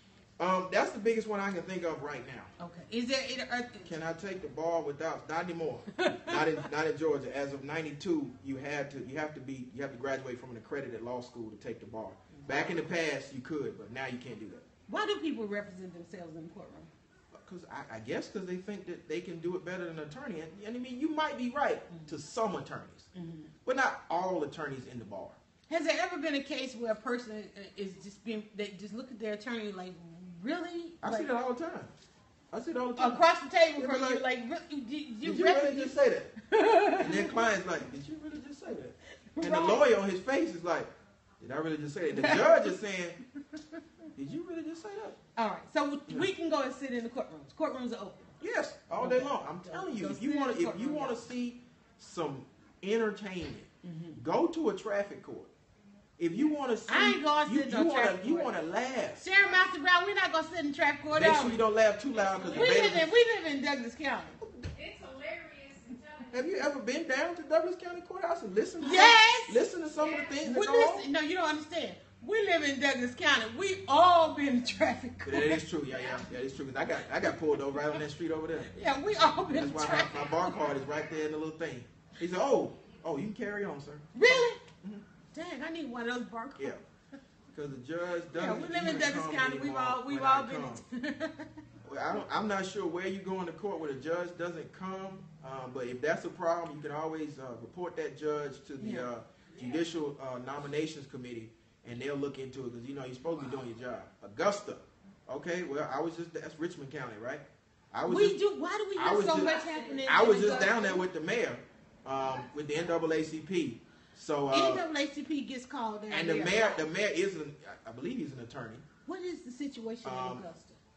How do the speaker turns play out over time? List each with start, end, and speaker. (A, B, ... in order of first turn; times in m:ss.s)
0:00.4-0:02.5 A
0:02.6-0:03.9 B
0:03.8-0:14.6 A
0:06.0-0:06.6 B
0:12.3-0:12.8 B
0:14.9-0:16.9 B
0:17.3-0:23.1 A
0:23.1-0:23.5 B
0:23.6-0:25.4 A
0:25.7-0:31.3 B
0:31.0-0:31.9 A
0:32.5-0:33.2 A
0:33.0-0:37.3 B
0:33.8-0:34.2 A
0:35.2-0:36.3 A
0:37.0-0:43.2 A
0:39.4-0:39.8 B
0:42.1-0:42.7 B
0:44.2-0:45.2 A
0:45.4-0:48.3 B
0:48.4-0:55.5 A
0:49.0-0:51.2 B
0:53.8-0:54.2 B
0:56.2-0:59.2 A
0:56.9-0:58.5 B
0:59.2-1:01.6 B
1:01.1-1:03.1 A
1:02.2-1:02.5 C
1:02.5-1:04.4 B
1:04.7-1:06.5 C
1:06.3-1:11.1 A
1:08.8-1:09.6 B
1:10.4-1:15.6 B
1:15.2-1:18.7 A
1:18.7-1:20.7 B
1:19.6-1:25.0 A
1:24.2-1:24.6 B
1:25.3-1:26.8 B
1:27.5-1:30.8 A
1:28.3-1:31.5 B
1:31.8-1:48.4 A
1:38.8-1:39.1 B
1:48.1-1:51.0 B
1:49.0-1:54.8 A
1:49.4-1:50.5 C
1:54.5-1:56.8 B
1:56.1-1:58.8 A
1:59.1-2:00.8 B
2:00.0-2:00.4 A